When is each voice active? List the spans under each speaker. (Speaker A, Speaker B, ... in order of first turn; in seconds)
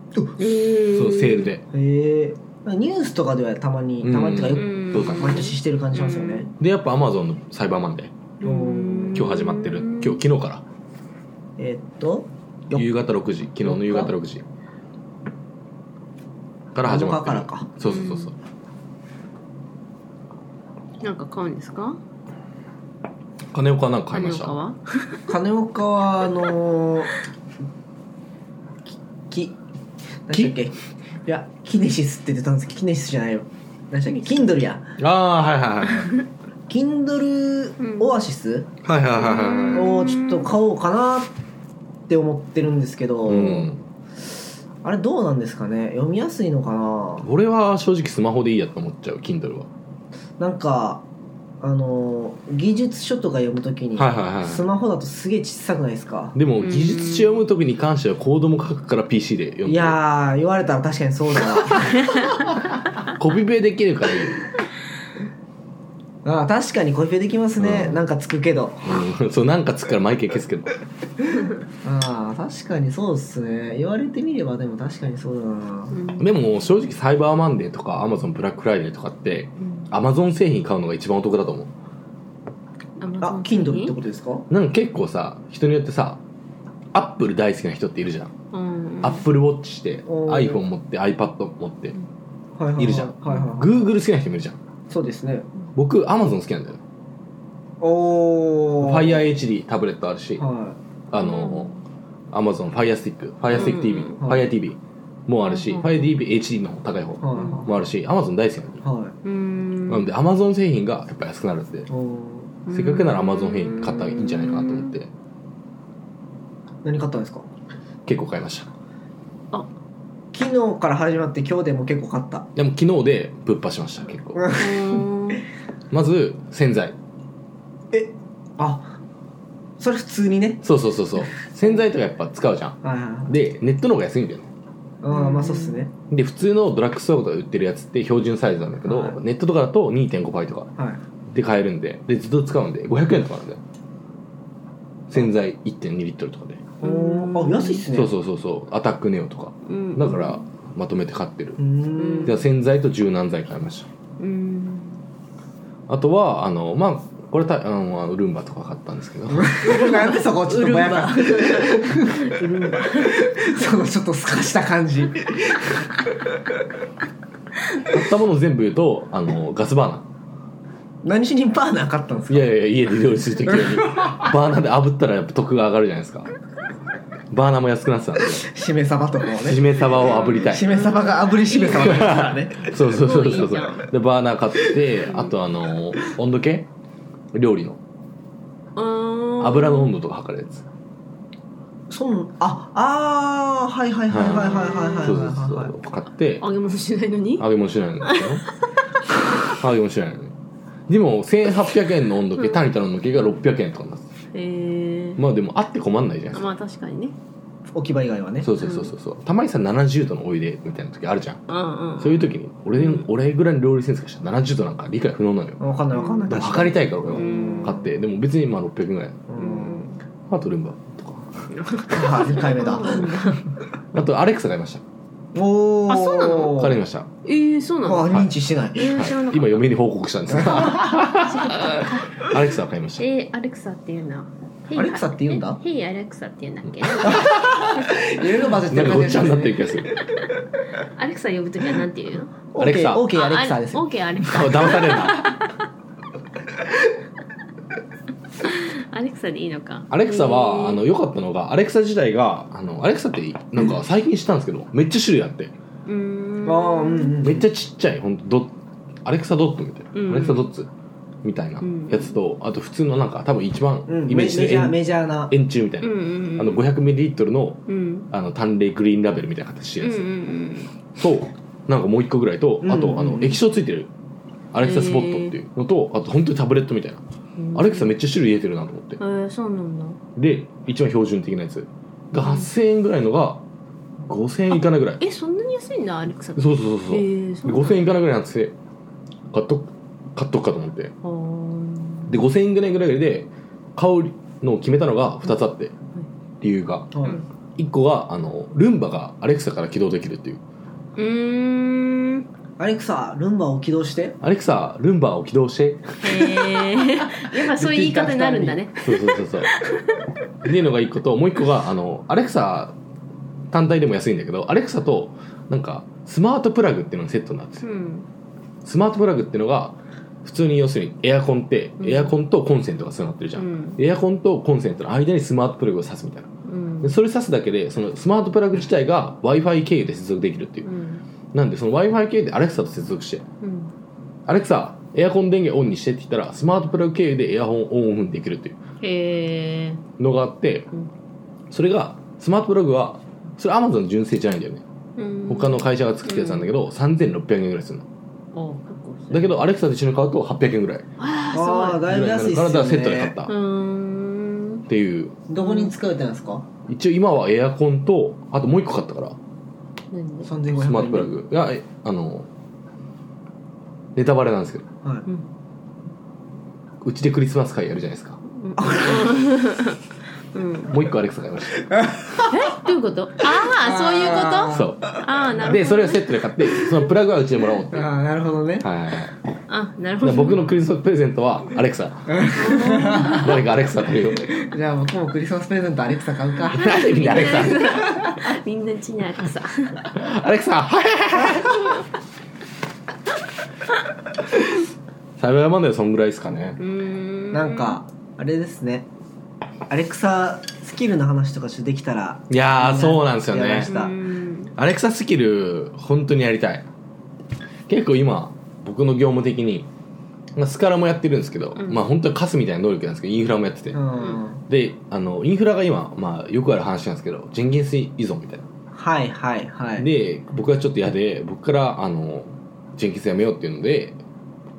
Speaker A: 0.4-1.5, 4.5-6.5, 8.4-10.2, 17.9-18.3, 21.0-22.0, 24.1-25.3, 34.1-34.6, 37.8-38.1, 39.2-40.5, 56.6-57.4, 75.9-76.3, 83.0-84.0, 88.5-89.2, 101.2-101.8, 103.5-104.2, 105.5-106.1, 107.3-107.7, 109.2-110.1, 112.7-114.9, 124.5-125.4, 135.1-135.8, 146.8-147.9, 149.7-150.4, 152.0-152.4, 154.2-155.0, 159.6-163.6, 180.0-183.9, 188.8-189.9, 194.5-195.2, 196.4-197.5, 198.0-198.4, 202.4-202.7, 204.3-205.2, 206.3-207.2, 208.6-208.9, 211.5-213.1, 215.9-216.3, 217.1-217.8, 219.4-219.9, 221.6-223.4, 225.9-226.6, 227.2-228.2, 228.8-229.6, 230.4-232.4, 233.0-238.1, 240.8-242.4, 243.1-245.5, 248.4-250.8, 255.9-257.3, 259.9-260.5, 261.6-262.1, 265.8-266.6, 267.7-268.1, 269.8-270.7, 274.6-275.4, 277.4-277.9, 279.0-280.0, 282.2-282.5, 284.5-287.8, 291.0-292.2, 301.0-302.3, 306.0-310.0, 317.6-318.1, 321.8-322.1, 323.4-323.8, 326.4-327.0, 330.6-331.0, 333.4-333.7, 338.8-339.8, 345.0-346.5, 348.3-349.4, 351.0-351.9, 353.3-354.6, 355.4-355.7, 359.9-360.3, 368.3-369.8, 370.3-370.7, 372.2-376.1, 379.5-380.4, 382.3-383.4, 386.6-389.9, 396.6-397.8, 403.7-404.5, 411.6-411.9
Speaker B: 0.9-1.6, 4.0-5.5, 6.6-8.2, 9.1-10.6, 12.7-14.4, 16.7-18.4, 23.5-24.6, 35.0-36.1, 38.8-40.0, 43.3-43.8, 47.2-49.7, 54.0-54.7, 56.4-60.0, 63.0-64.5, 67.6-68.0, 68.8-70.8, 76.2-81.7, 84.5-86.2, 86.9-88.3, 89.0-92.0, 92.8-94.6, 95.8-96.8, 98.8-100.4, 101.1-101.7, 102.3-108.8, 109.9-111.9, 112.7-115.1, 118.1-118.7, 122.6-124.5, 125.9-127.0, 130.6-134.5, 136.1-140.7, 141.3-143.6, 145.1-146.7, 147.9-151.6, 152.2-153.9, 155.9-159.8, 167.8-170.1, 172.3-176.3, 177.3-178.4, 179.4-180.8, 181.8-186.7, 187.3-187.8, 189.4-190.6, 194.1-196.4, 197.4-198.4, 199.4-200.3, 200.9-204.1, 205.2-206.5, 208.4-211.4, 212.0-215.6, 216.3-219.2, 220.3-221.6, 223.9-224.8, 226.4-227.1, 228.8-233.1, 236.8-237.7, 238.7-240.0, 242.6-243.1, 244.2-245.3, 249.9-255.5, 257.2-260.7, 261.2-264.8, 265.3-270.1, 271.0-273.9, 274.5-277.0, 277.6-279.0, 280.2-283.4, 284.1-285.0, 286.4-288.6, 289.3-290.9, 292.1-295.8, 296.4-296.9, 297.6-300.4, 304.2-306.4, 308.8-309.5, 310.4-312.8, 313.5-317.6, 318.6-326.3, 326.8-330.7, 331.3-333.2, 334.3-338.6, 340.0-340.7, 341.5-344.6, 345.3-347.9, 349.1-350.9, 351.9-353.3, 354.7-355.2, 356.7-359.2, 360.5-362.3, 364.0-364.7, 366.8-368.2, 370.7-371.8, 374.5-377.9, 378.6-379.1, 380.0-382.2, 383.0-384.4, 386.5-387.9, 389.9-391.8, 395.2-396.6, 402.3-403.7, 404.6-406.7, 407.7-409.7, 410.4-413.8, 414.5-418.5, 419.8-424.0
Speaker C: 1.7-6.5, 8.4-9.3, 11.6-12.9, 13.6-14.1, 16.9-17.7, 25.3-27.1, 28.9-29.6, 30.3-34.9, 36.7-38.7, 39.7-41.3, 42.1-43.7, 44.8-47.3, 50.4-51.0, 51.6-56.4, 59.7-62.1, 66.2-69.0, 71.8-76.0, 83.2-84.5, 90.1-90.6, 92.6-93.8, 94.9-95.5, 97.8-99.3, 100.4-100.8, 104.2-104.5, 107.2-107.7, 108.8-109.2, 111.9-112.5, 116.8-117.5, 120.3-122.5, 124.4-125.0, 127.9-128.9, 129.8-130.6, 132.8-133.3, 135.0-135.9, 138.8-139.2, 146.8-148.1, 151.6-152.4, 159.3-166.0, 171.0-172.5, 173.5-174.3, 178.4-182.8, 191.9-195.7, 207.7-208.5, 215.6-217.9, 219.3-219.9, 221.9-223.3, 225.3-226.8, 227.8-229.0, 230.4-230.9, 234.8-235.6, 237.1-239.7, 242.5-243.9, 256.4-257.5, 263.9-265.3, 272.6-273.4, 296.9-297.2, 302.6-304.2, 307.0-308.8, 351.3-353.1, 355.3-356.5, 360.2-361.1, 368.6-369.2, 371.8-372.3, 373.4-374.9, 377.7-378.7, 382.1-383.3, 384.3-388.3, 397.3-398.9, 399.7-404.0, 413.7-414.4, 418.8-419.9